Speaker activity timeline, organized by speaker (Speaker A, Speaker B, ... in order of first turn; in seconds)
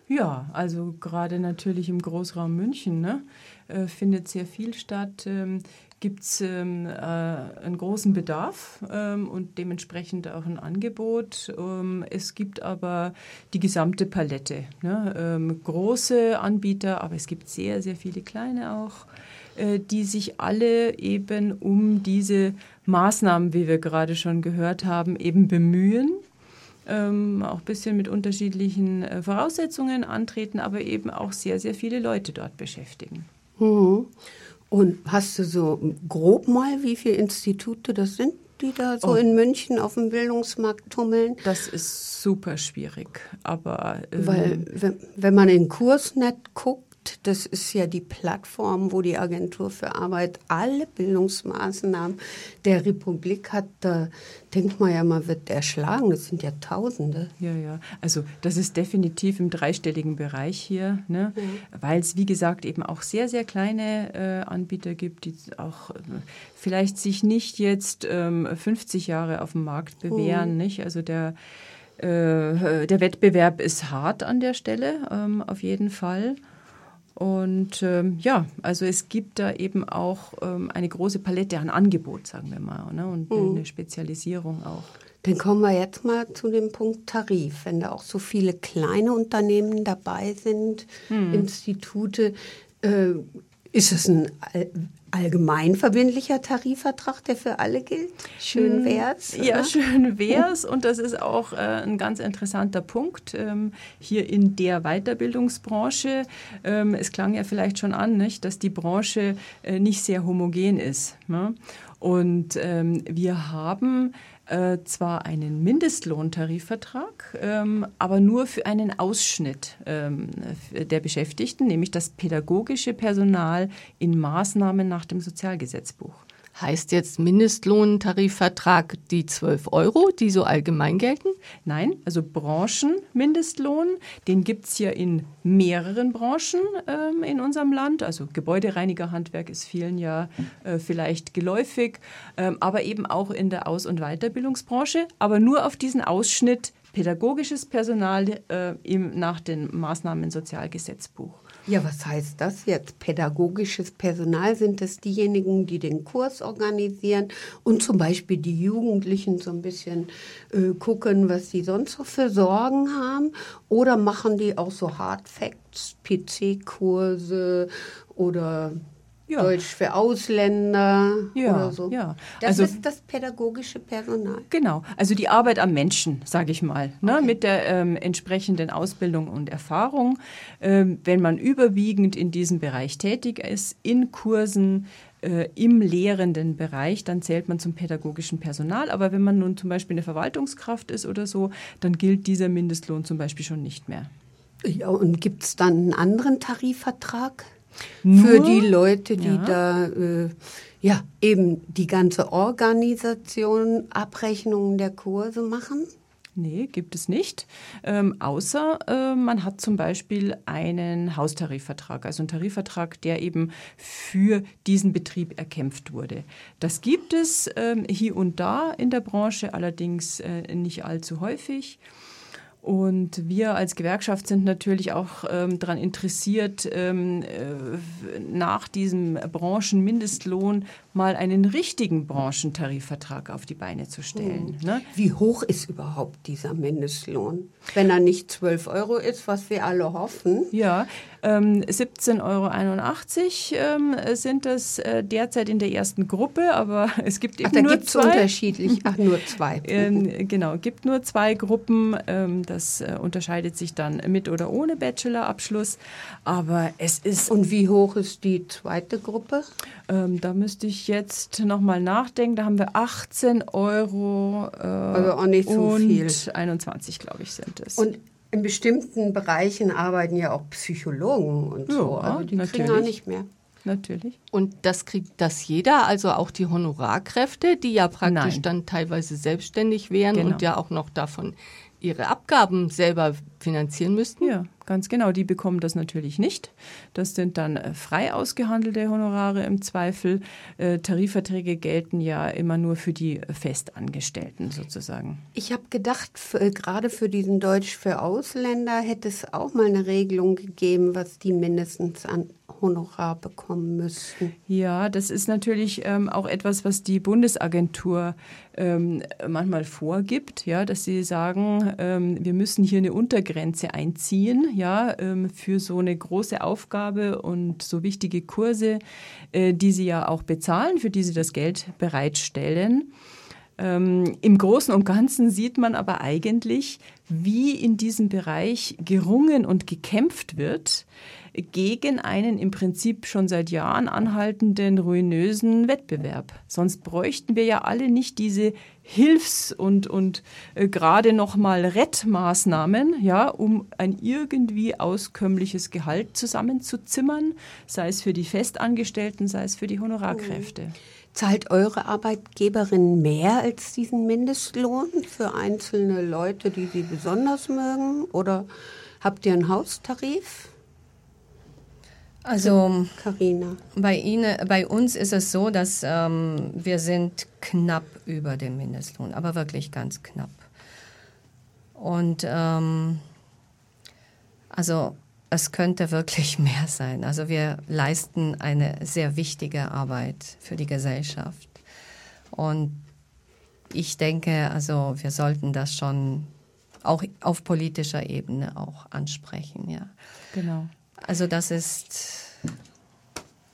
Speaker A: 0.1-26.2, 26.9-33.2, 41.4-44.6, 57.4-71.3, 72.0-76.4, 77.2-84.9, 91.1-91.5, 98.5-126.2, 131.6-151.4, 171.3-172.8, 174.5-194.1, 198.0-199.6, 206.4-221.8, 222.6-234.9, 240.5-248.3, 249.6-257.3, 259.9-267.8, 271.7-272.9, 273.6-274.2, 278.0-278.4, 280.1-280.4, 284.2-295.2, 304.5-318.8, 319.3-322.9, 323.6-350.7, 390.3-390.7
Speaker B: 33.6-34.1, 34.7-41.4, 44.2-57.3, 61.4-61.6, 70.1-70.5, 83.3-83.6, 85.2-99.7, 151.7-168.8, 169.4-174.5, 177.0-177.3, 194.6-197.5, 198.1-205.9, 234.1-240.5, 247.4-250.0, 257.3-259.5, 264.9-266.2, 267.8-273.3, 295.3-304.3, 350.1-350.5, 351.1-358.5, 359.0-360.5, 362.4-363.6
Speaker C: 126.5-131.4, 274.3-284.3
Speaker D: 362.2-363.0, 363.7-370.5, 371.8-373.0, 374.5-381.6, 382.3-382.8, 383.7-386.3, 386.8-389.9, 391.0-392.4